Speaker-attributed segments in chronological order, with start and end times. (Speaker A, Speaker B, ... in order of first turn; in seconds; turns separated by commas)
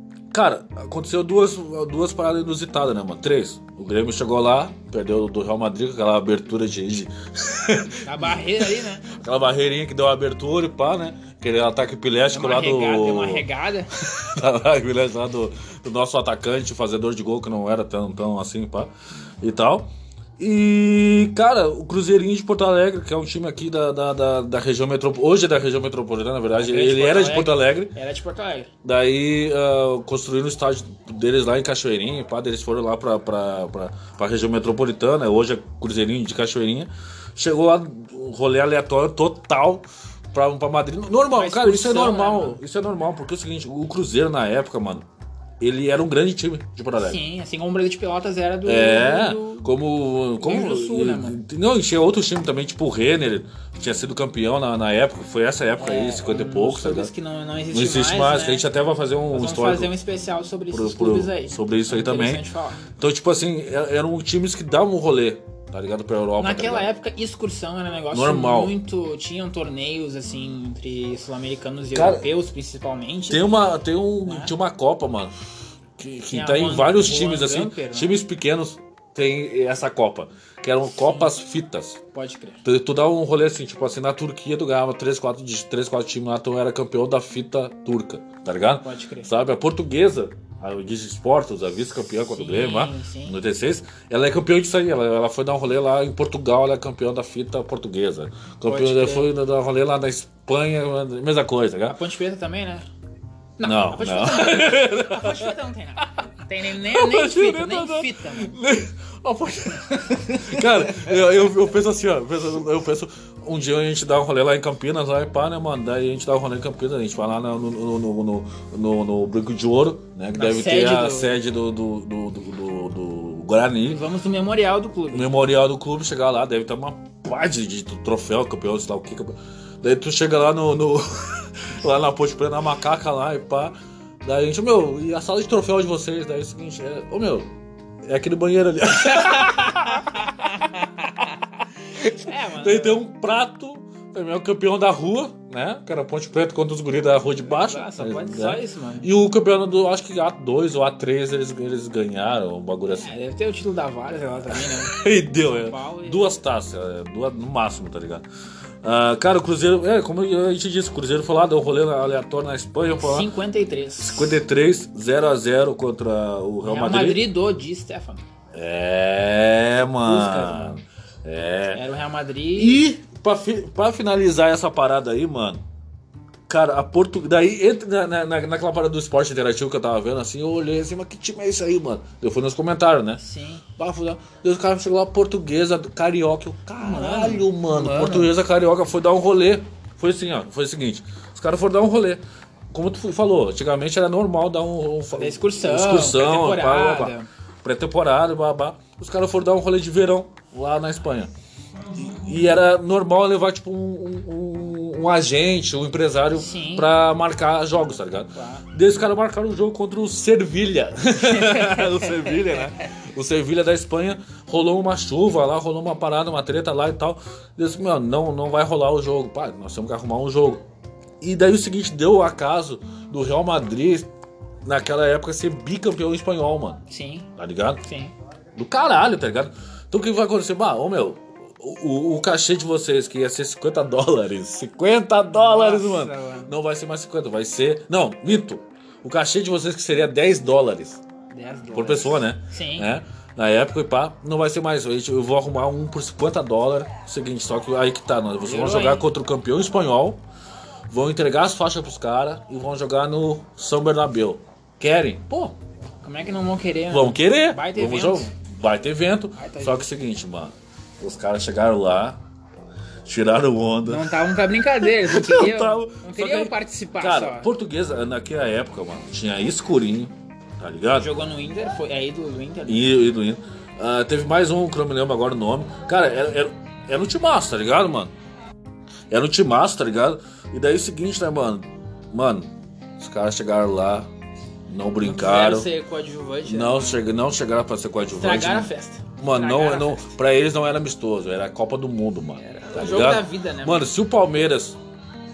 Speaker A: 0.3-13.5, Speaker B: 8.0-9.1, Speaker B: 12.3-13.9, Speaker A: 14.1-27.9, Speaker B: 26.6-28.7, Speaker A: 28.8-45.1, Speaker B: 41.4-42.6, Speaker A: 45.6-47.2, Speaker B: 47.0-49.7, Speaker A: 48.6-57.1, Speaker B: 50.4-51.4, Speaker B: 55.8-58.6, Speaker A: 57.7-60.0, Speaker B: 59.3-62.8, Speaker A: 60.7-62.4, Speaker A: 63.0-66.9, Speaker B: 66.4-73.5, Speaker A: 68.1-68.8, Speaker A: 71.9-72.2, Speaker A: 73.3-75.3, Speaker B: 74.2-74.5, Speaker A: 76.0-82.0, Speaker B: 76.2-78.2, Speaker B: 80.9-81.3, Speaker B: 82.1-82.6, Speaker A: 82.6-102.0, Speaker B: 88.8-89.3, Speaker B: 92.3-93.4, Speaker B: 98.6-99.3, Speaker B: 101.8-102.8, Speaker B: 103.6-108.5, Speaker A: 103.6-106.2, Speaker A: 106.8-124.0, Speaker B: 110.1-110.6, Speaker B: 120.3-121.3, Speaker B: 123.9-125.4, Speaker A: 125.1-137.5, Speaker A: 138.0-140.4, Speaker B: 139.2-140.7, Speaker A: 142.0-153.1, Speaker B: 142.0-143.0, Speaker B: 147.5-149.1, Speaker B: 152.9-156.4, Speaker A: 154.5-158.2, Speaker A: 158.8-163.3, Speaker B: 162.9-164.4, Speaker A: 164.0-167.2, Speaker B: 166.6-168.3, Speaker A: 168.5-171.8, Speaker B: 169.9-170.8, Speaker B: 171.7-172.8, Speaker A: 172.5-175.6, Speaker A: 176.5-183.2, Speaker B: 183.2-183.7, Speaker A: 183.8-201.3, Speaker B: 186.8-188.3, Speaker B: 195.1-197.3, Speaker A: 201.9-220.6, Speaker B: 206.3-206.9, Speaker B: 208.3-208.7, Speaker B: 211.4-212.5, Speaker A: 221.2-224.1, Speaker A: 224.6-226.8, Speaker B: 226.9-227.3, Speaker A: 227.4-227.8, Speaker B: 227.8-228.1, Speaker A: 228.5-241.0, Speaker B: 235.3-236.5, Speaker B: 241.3-242.9, Speaker A: 241.7-250.2, Speaker B: 248.4-249.1, Speaker A: 250.9-255.5, Speaker B: 256.0-258.3, Speaker A: 256.9-262.2, Speaker B: 259.3-259.9, Speaker A: 263.0-264.1, Speaker B: 263.8-267.5, Speaker A: 264.8-271.1, Speaker B: 270.9-272.9, Speaker A: 272.7-278.1, Speaker A: 279.1-284.1, Speaker A: 284.7-285.7, Speaker B: 285.0-287.0, Speaker A: 286.4-294.8, Speaker B: 288.1-290.1, Speaker B: 292.4-293.9